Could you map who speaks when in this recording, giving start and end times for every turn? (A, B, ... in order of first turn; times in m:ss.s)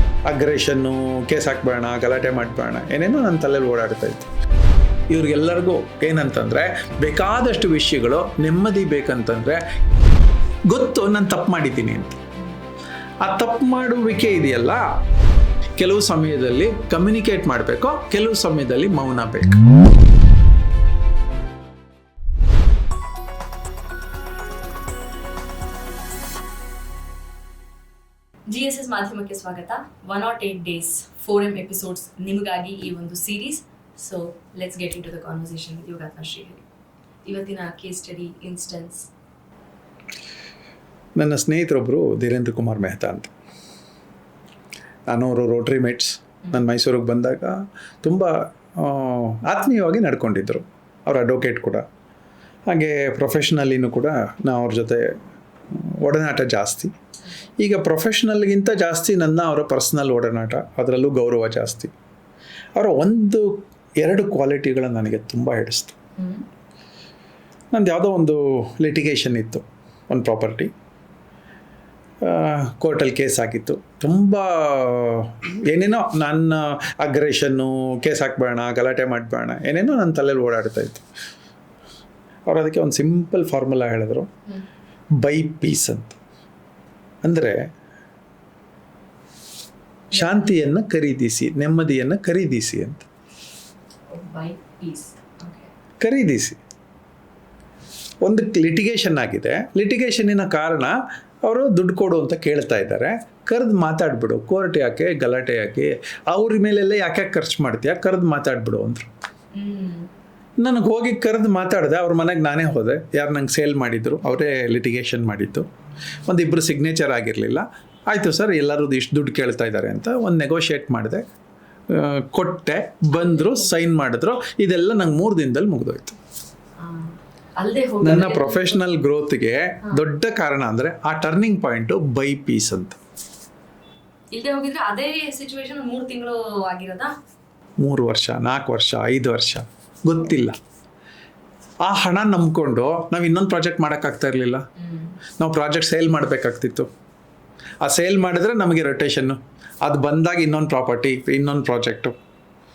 0:00.2-0:04.3 A
0:05.1-0:09.6 A
0:10.7-0:12.2 A
0:13.2-0:14.8 A
0:15.8-0:19.7 A
0:28.5-0:36.6 B
0:37.2-0:39.1 B
0:41.2-0:43.3 A
0:45.1-0:51.8 A
0:52.7-0:55.1 A
0:55.7-0:56.9 A
0:57.6-1:01.9 A
1:02.8-1:06.0 A
1:06.2-1:06.5 B
1:07.7-1:10.7 A
1:12.2-1:21.0 A
1:22.5-1:24.3 A
1:25.2-1:26.2 A
1:27.2-1:27.6 A
1:30.1-1:33.1 A
1:34.1-1:35.7 B
1:36.0-1:36.6 A
1:38.2-1:49.1 A
1:49.5-1:50.1 B
1:50.6-1:55.7 A
1:56.2-2:01.2 A
2:01.9-2:06.2 A
2:03.1-2:03.7 B
2:06.8-2:08.8 B
2:08.0-2:13.0 A
2:14.3-2:17.1 B
2:17.8-2:20.6 A
2:21.8-2:24.6 A
2:24.8-2:25.2 B
2:25.4-2:26.9 A
2:27.8-2:32.1 A